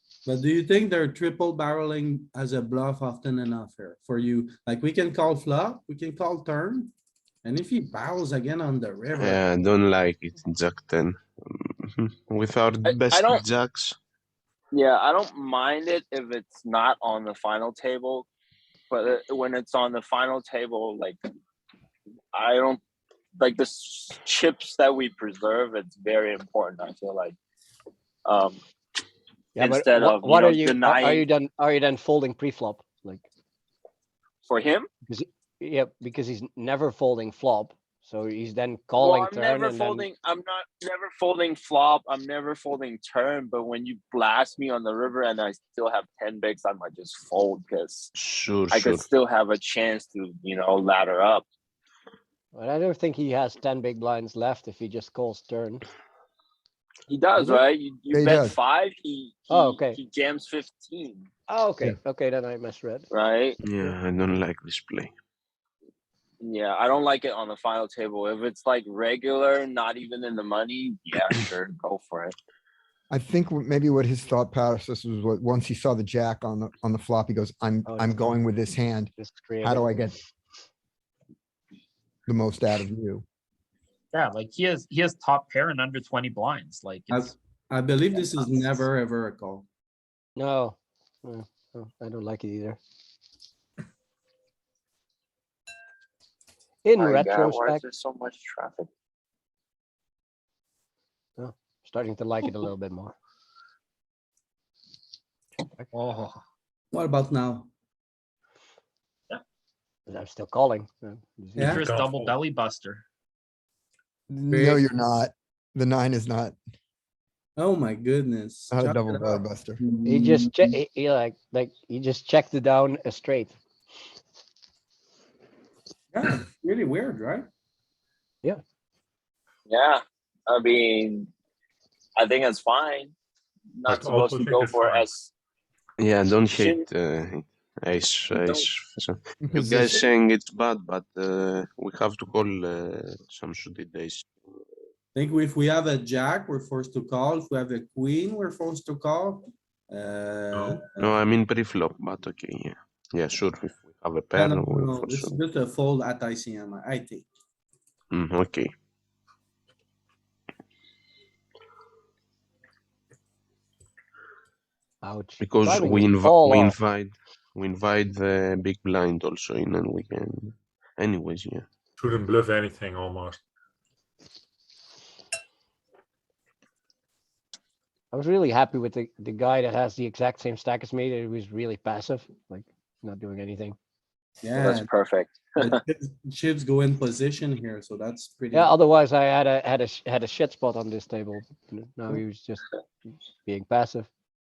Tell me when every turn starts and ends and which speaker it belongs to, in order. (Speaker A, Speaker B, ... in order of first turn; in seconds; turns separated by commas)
Speaker A: 0.3-6.9, Speaker A: 7.4-9.4, Speaker B: 9.2-14.0, Speaker C: 12.9-13.4, Speaker C: 14.7-18.3, Speaker C: 18.9-21.2, Speaker C: 22.3-22.8, Speaker C: 23.4-27.4, Speaker C: 28.3-28.6, Speaker D: 29.6-33.3, Speaker C: 29.6-31.3, Speaker C: 34.4-34.9, Speaker D: 35.1-40.1, Speaker C: 39.0-48.1, Speaker B: 48.1-49.1, Speaker C: 48.7-51.5, Speaker D: 52.5-55.8, Speaker C: 57.1-61.3, Speaker E: 58.1-58.5, Speaker D: 59.5-60.0, Speaker D: 61.5-63.1, Speaker C: 63.1-63.6, Speaker B: 63.6-65.1, Speaker C: 66.4-72.3, Speaker E: 73.1-79.1, Speaker D: 77.9-78.4, Speaker D: 79.2-80.0, Speaker E: 79.6-80.2, Speaker E: 82.3-83.2, Speaker F: 84.1-87.0, Speaker A: 87.1-89.6, Speaker D: 90.4-92.8, Speaker D: 96.8-97.8, Speaker C: 97.0-98.9, Speaker D: 101.4-103.2, Speaker F: 105.9-106.4, Speaker A: 106.9-107.7, Speaker D: 110.1-111.8, Speaker A: 111.6-111.8, Speaker G: 111.7-112.4, Speaker F: 111.8-113.0, Speaker E: 114.3-116.6, Speaker A: 114.5-114.9, Speaker A: 117.6-120.8, Speaker E: 118.7-119.8, Speaker D: 120.0-123.6, Speaker A: 126.1-127.5, Speaker C: 129.7-131.3, Speaker C: 132.2-133.1, Speaker C: 133.8-135.3, Speaker G: 133.9-135.1, Speaker B: 136.0-144.3, Speaker C: 136.5-136.8, Speaker C: 138.3-138.7, Speaker E: 139.4-140.0, Speaker A: 145.2-151.2, Speaker B: 150.6-155.3, Speaker A: 154.3-157.3, Speaker B: 158.1-158.7, Speaker D: 165.0-166.8, Speaker B: 165.4-171.7, Speaker G: 172.0-173.4, Speaker D: 178.1-183.8, Speaker A: 184.4-184.9, Speaker C: 184.6-185.7, Speaker A: 185.6-188.7, Speaker D: 188.5-192.7, Speaker D: 193.4-194.1